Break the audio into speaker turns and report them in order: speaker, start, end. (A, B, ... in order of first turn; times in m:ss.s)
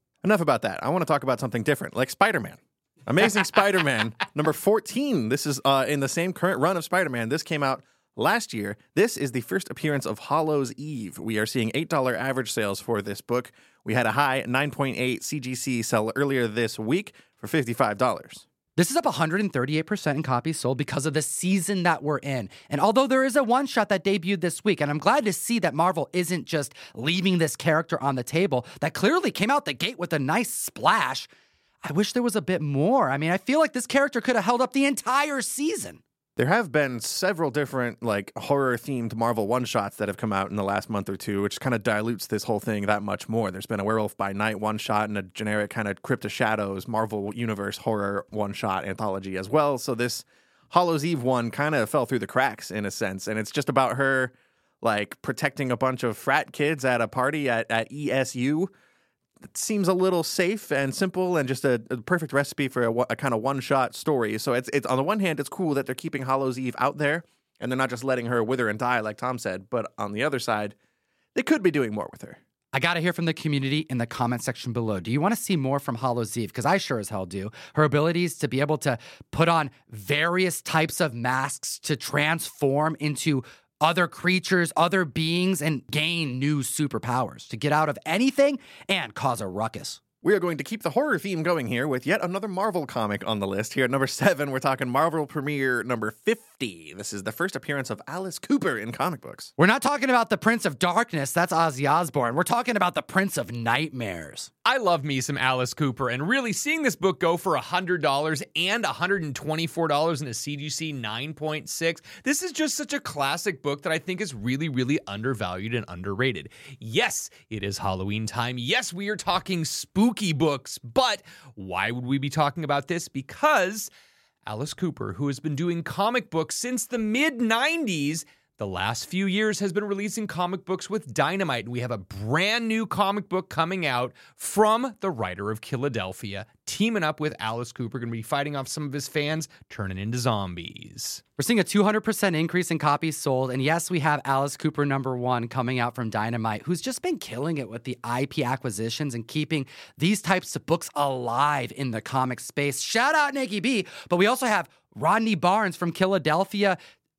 0:00.2-0:18.4 A
0:18.8-0:31.3 B
0:31.8-0:36.0 B
0:36.4-0:58.7 A
0:59.5-1:10.7 A
1:11.3-1:12.4 A
1:12.7-1:30.0 B
1:30.2-1:39.5 A
1:39.6-1:44.5 B
1:44.6-2:03.9 C
2:04.4-2:21.2 C
2:21.4-2:36.8 B